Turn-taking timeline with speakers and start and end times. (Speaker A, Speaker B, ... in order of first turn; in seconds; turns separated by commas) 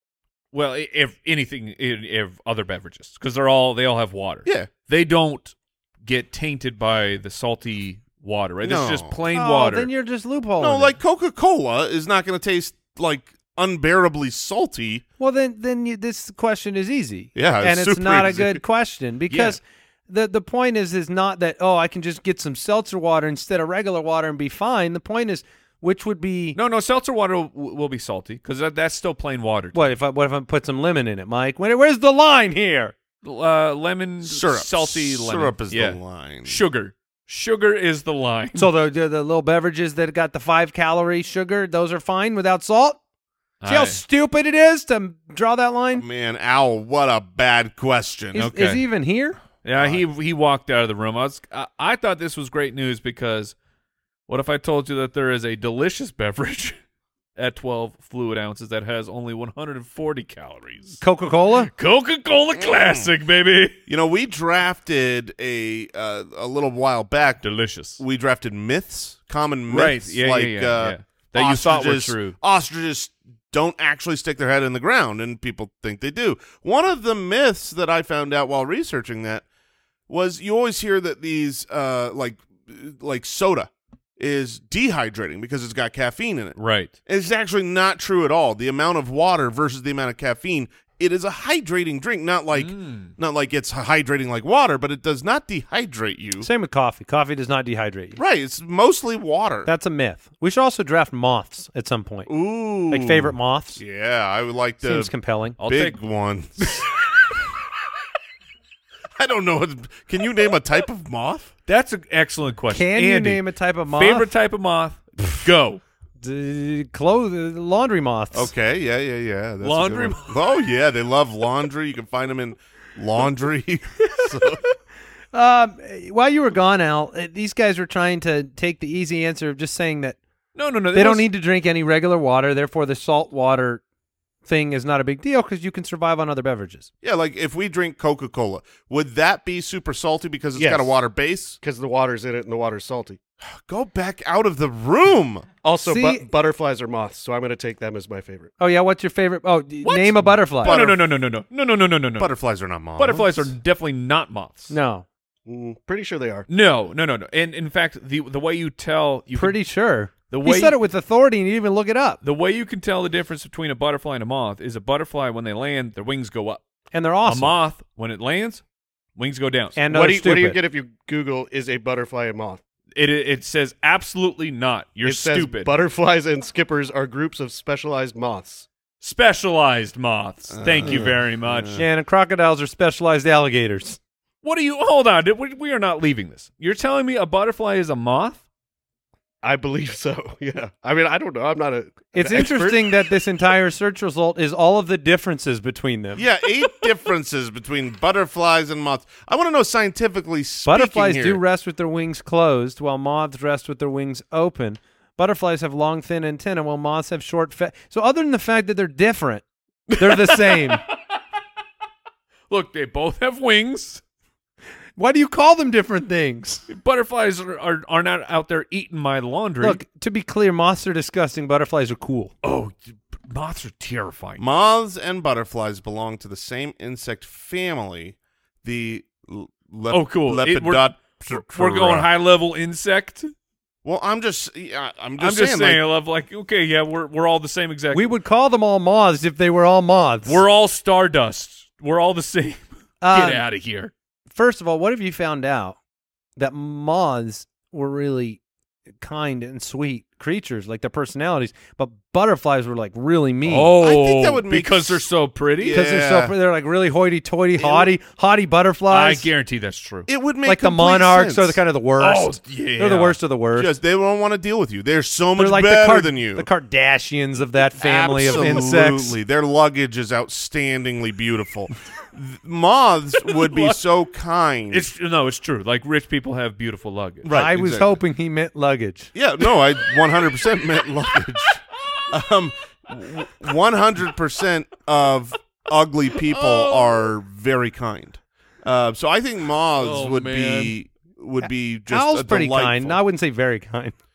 Speaker A: 0.5-9.9, Speaker B: 4.5-4.7, Speaker B: 8.6-9.1, Speaker C: 9.3-10.9, Speaker B: 10.6-15.0, Speaker C: 15.2-26.6, Speaker B: 17.3-18.6, Speaker A: 19.3-19.6, Speaker A: 26.5-29.9, Speaker C: 29.7-32.9, Speaker A: 33.2-38.7, Speaker B: 34.2-36.6, Speaker C: 38.5-43.0, Speaker A: 43.6-44.0, Speaker C: 43.6-46.0, Speaker B: 46.0-48.5, Speaker C: 48.3-49.4, Speaker A: 48.4-48.8, Speaker A: 49.6-53.5, Speaker B: 49.7-50.0, Speaker A: 54.3-56.8, Speaker A: 57.4-61.0, Speaker C: 61.0-61.7, Speaker A: 61.7-63.8, Speaker B: 62.6-63.0, Speaker B: 63.9-67.4, Speaker A: 67.4-68.0, Speaker B: 68.0-79.4, Speaker A: 69.7-72.4, Speaker B: 80.1-96.5, Speaker A: 86.6-86.9, Speaker A: 92.5-93.1, Speaker C: 96.4-98.2, Speaker B: 98.2-99.7, Speaker C: 99.6-102.3, Speaker B: 102.3-105.1, Speaker C: 102.9-103.8, Speaker C: 104.8-105.6, Speaker A: 105.6-106.0, Speaker B: 105.7-106.8, Speaker B: 109.2-111.5, Speaker A: 111.7-115.8, Speaker C: 112.7-114.3, Speaker C: 116.2-118.5, Speaker B: 118.3-124.6, Speaker A: 119.6-120.3, Speaker C: 125.3-130.2, Speaker A: 130.5-131.2, Speaker C: 130.9-133.8, Speaker C: 134.4-136.9, Speaker B: 137.0-141.6, Speaker D: 140.6-140.9, Speaker D: 141.6-143.2, Speaker B: 143.5-145.5, Speaker D: 145.6-148.5, Speaker C: 145.8-146.3, Speaker C: 148.6-150.8, Speaker A: 149.8-152.3, Speaker B: 150.6-151.0, Speaker B: 152.2-153.5, Speaker A: 152.9-154.7, Speaker C: 154.7-155.1, Speaker D: 155.4-156.4, Speaker A: 156.5-159.6, Speaker C: 159.3-162.2, Speaker A: 160.3-160.8, Speaker A: 162.2-166.6, Speaker C: 166.9-167.6, Speaker A: 167.2-168.6, Speaker A: 169.2-169.8, Speaker C: 169.8-170.6, Speaker D: 169.9-172.6, Speaker A: 172.9-175.7, Speaker D: 175.0-178.7, Speaker A: 179.0-181.8, Speaker B: 180.6-181.8, Speaker C: 181.8-184.0, Speaker A: 184.4-188.4, Speaker D: 189.4-192.8, Speaker C: 192.1-196.2, Speaker B: 196.2-201.4, Speaker C: 200.7-209.4, Speaker A: 209.9-210.8, Speaker C: 209.9-210.8, Speaker A: 212.5-214.0, Speaker C: 215.0-216.6, Speaker A: 216.7-219.8, Speaker C: 219.6-222.3, Speaker A: 222.4-224.4, Speaker B: 224.4-232.1, Speaker A: 229.9-233.3, Speaker B: 233.8-235.8, Speaker A: 235.2-238.1, Speaker C: 237.9-240.4, Speaker A: 240.2-243.9, Speaker C: 243.0-243.4, Speaker C: 244.3-245.8, Speaker C: 246.3-248.4, Speaker C: 249.0-253.7, Speaker A: 253.4-255.8, Speaker B: 253.8-255.1, Speaker B: 255.6-256.3, Speaker C: 255.7-259.3, Speaker B: 257.6-257.9, Speaker A: 258.9-260.1, Speaker B: 260.1-261.6, Speaker C: 260.4-263.7, Speaker A: 262.0-263.2, Speaker B: 263.5-266.5, Speaker C: 265.4-269.2, Speaker B: 267.8-274.9, Speaker A: 268.3-268.7, Speaker A: 273.3-273.8, Speaker A: 274.7-277.3, Speaker B: 277.2-278.0, Speaker C: 277.3-279.1, Speaker B: 279.1-293.0, Speaker A: 286.3-287.1, Speaker A: 289.8-290.8, Speaker C: 291.9-293.9